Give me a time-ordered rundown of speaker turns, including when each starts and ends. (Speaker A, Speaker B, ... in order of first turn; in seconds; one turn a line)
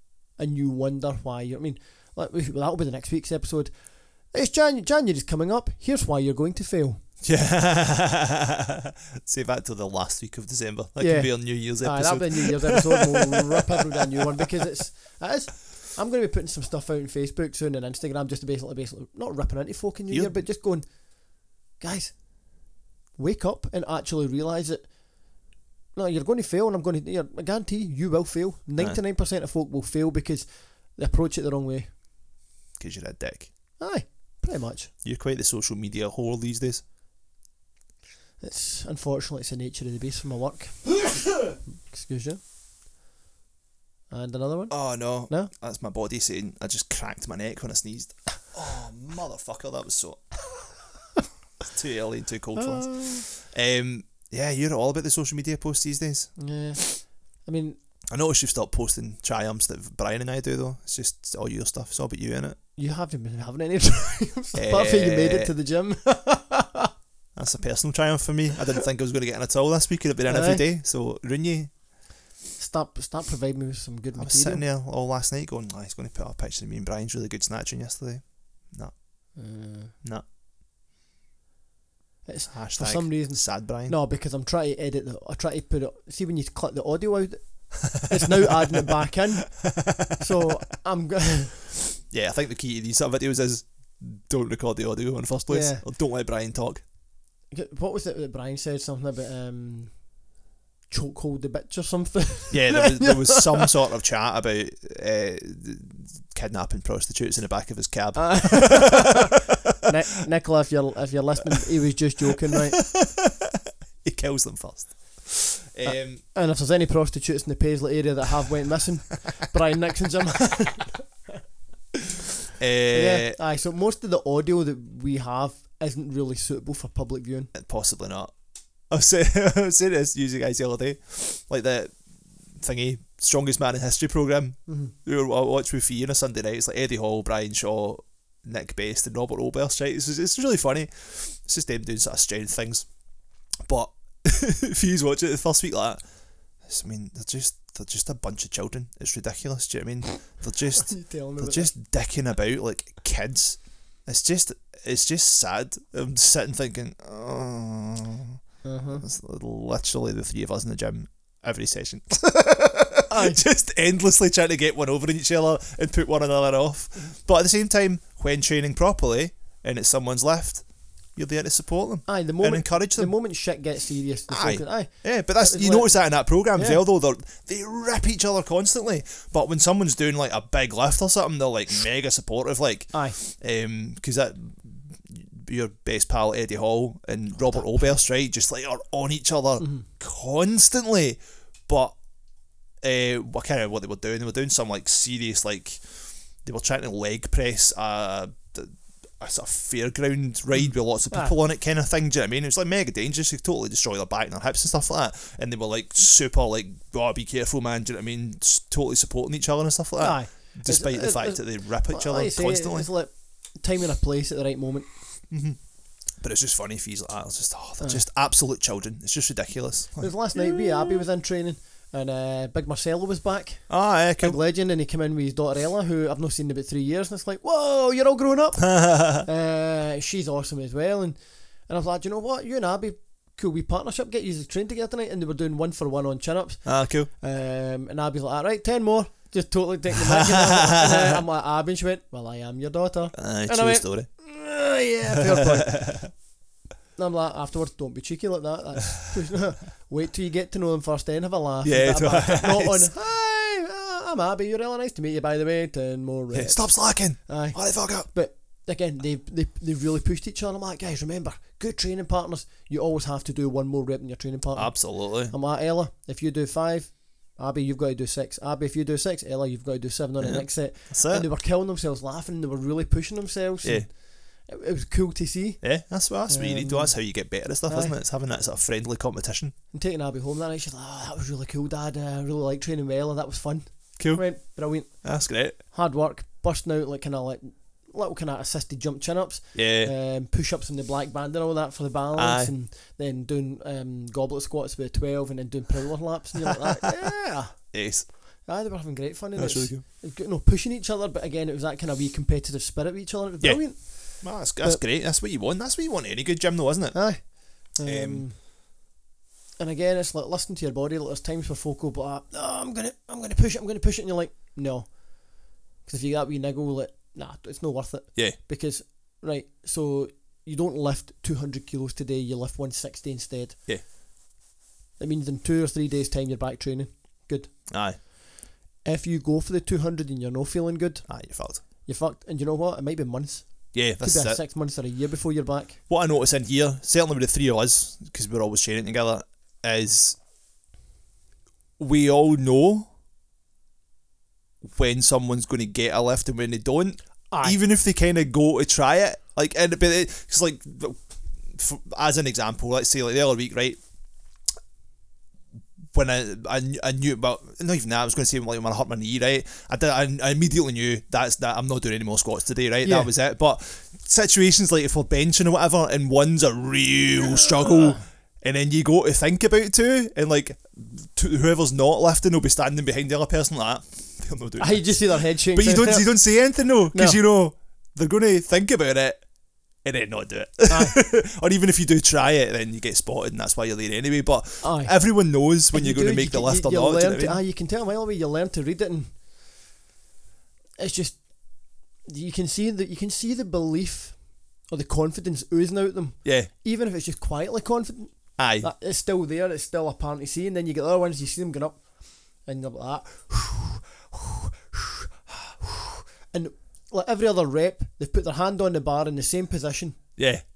Speaker A: 0.3-7.0
Speaker B: 7.2-14.4
Speaker A: 11.0-22.5
Speaker A: 23.2-24.9
Speaker A: 25.9-31.9
Speaker B: 32.8-33.5
Speaker A: 33.8-34.9
Speaker B: 35.0-36.8
Speaker A: 38.4-42.4
Speaker A: 44.1-45.5
Speaker B: 44.7-50.2
Speaker B: 51.6-56.8
Speaker A: 52.6-53.2
Speaker A: 56.4-57.8
Speaker B: 58.1-62.6
Speaker A: 62.8-66.9
Speaker B: 64.5-65.5
Speaker B: 67.4-71.8
Speaker A: 70.3-70.7
Speaker A: 72.6-74.6
Speaker B: 74.2-79.4
Speaker A: 79.3-80.0
Speaker A: 82.3-91.6
Speaker B: 82.5-84.0
Speaker B: 89.7-90.2
Speaker B: 92.1-96.8
Speaker A: 95.5-95.9
Speaker A: 97.5-100.1
Speaker A: 100.9-103.7
Speaker B: 102.5-109.3
Speaker A: 108.2-112.9
Speaker B: 112.8-113.3
Speaker B: 114.0-116.2
Speaker A: 115.8-121.4
Speaker B: 122.6-123.4
Speaker A: 122.9-127.5
Speaker B: 127.5-128.4
Speaker B: 128.9-132.0
Speaker B: 132.5-142.9
Speaker A: 134.7-134.9
Speaker B: 143.7-158.4
Speaker A: 150.8-151.7
Speaker A: 158.6-159.1
Speaker B: 159.0-173.1
Speaker A: 163.1-163.4
Speaker A: 172.1-176.8
Speaker B: 174.3-192.0
Speaker A: 187.5-187.9
Speaker A: 189.6-189.8
Speaker B: 192.8-212.9
Speaker A: 200.6-201.3
Speaker A: 210.0-214.9
Speaker B: 215.3-215.6
Speaker B: 216.2-221.0
Speaker A: 220.0-246.2
Speaker B: 223.7-224.4
Speaker B: 228.6-229.2
Speaker B: 236.7-237.1
Speaker B: 240.0-241.2
Speaker B: 243.2-244.1
Speaker B: 245.3-246.1
Speaker A: 247.0-277.9
Speaker B: 251.6-252.9
Speaker B: 256.3-258.1
Speaker B: 264.5-265.3
Speaker B: 270.2-271.3
Speaker B: 273.6-273.9
Speaker B: 275.6-279.5
Speaker A: 279.7-297.8
Speaker B: 284.0-284.4
Speaker B: 285.0-285.6
Speaker B: 289.5-289.9
Speaker B: 292.1-292.5
Speaker B: 297.7-298.1
Speaker A: 298.4-304.8
Speaker B: 299.4-299.8
Speaker B: 303.4-308.3
Speaker A: 306.9-308.4
Speaker A: 309.6-323.6
Speaker A: 325.0-328.1
Speaker B: 327.7-328.0
Speaker A: 328.8-335.8
Speaker B: 331.1-331.6
Speaker B: 333.7-334.4
Speaker B: 335.9-340.2
Speaker B: 341.8-342.9
Speaker B: 344.6-353.8
Speaker A: 347.3-347.6
Speaker B: 355.9-387.4
Speaker A: 362.8-363.1
Speaker A: 367.7-368.0
Speaker A: 374.6-377.2
Speaker A: 380.7-380.9
Speaker A: 384.6-389.2
Speaker A: 390.8-410.2
Speaker B: 396.2-396.5
Speaker B: 398.4-398.7
Speaker B: 410.2-410.4